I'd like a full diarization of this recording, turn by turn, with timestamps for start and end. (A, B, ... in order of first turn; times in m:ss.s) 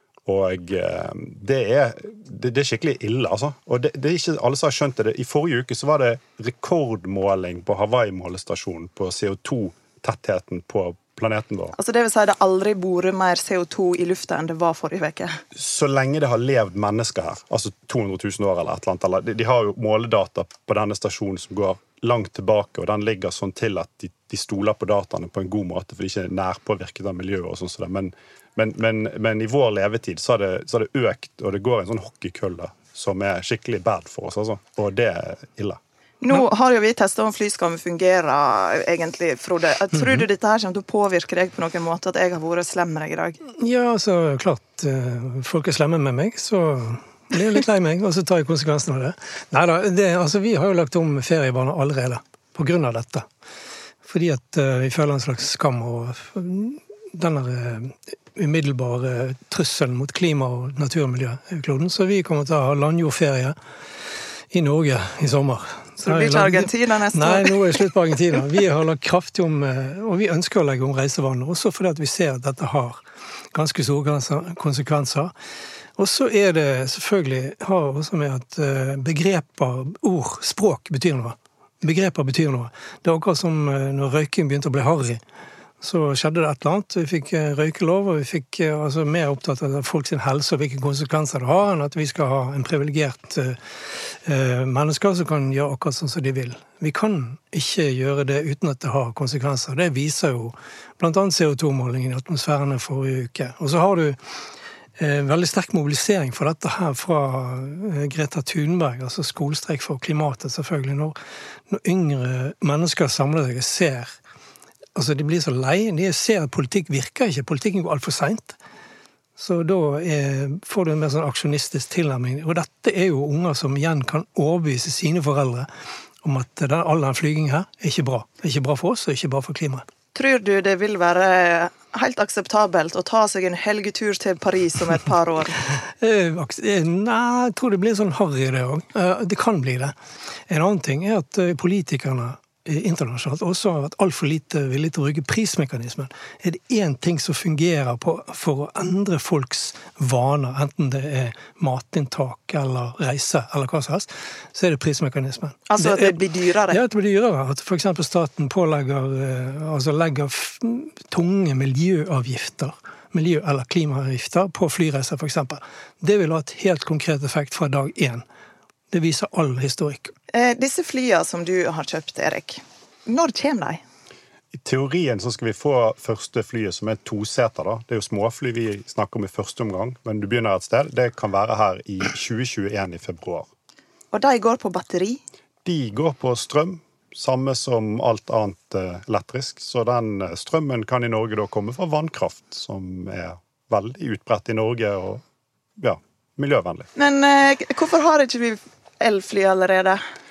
0:00.2-0:11.8 A
0:11.8-0:15.3 B
0:15.5-0:35.8 A
0:36.2-0:43.4 B
0:43.6-0:53.2 C
0:54.0-1:03.5 C
1:04.5-1:13.0 C
1:06.0-1:07.6 B
1:13.5-1:15.3 C
1:16.0-1:25.2 C
1:25.8-1:44.2 C
1:45.0-1:51.2 C
1:51.7-1:54.1 C
1:54.9-1:58.6 C
1:59.4-2:05.7 C
2:06.2-2:09.8 C
2:10.1-2:15.6 B
2:16.0-2:19.9 C
2:20.5-2:36.2 C
2:35.7-2:36.8 B
2:36.7-2:48.2 C
2:48.9-2:50.1 C
2:50.3-2:53.8 B
2:54.5-3:03.5 A
3:04.1-3:05.2 B
3:05.6-3:15.2 A
3:15.8-3:16.9 A
3:17.0-3:20.0 B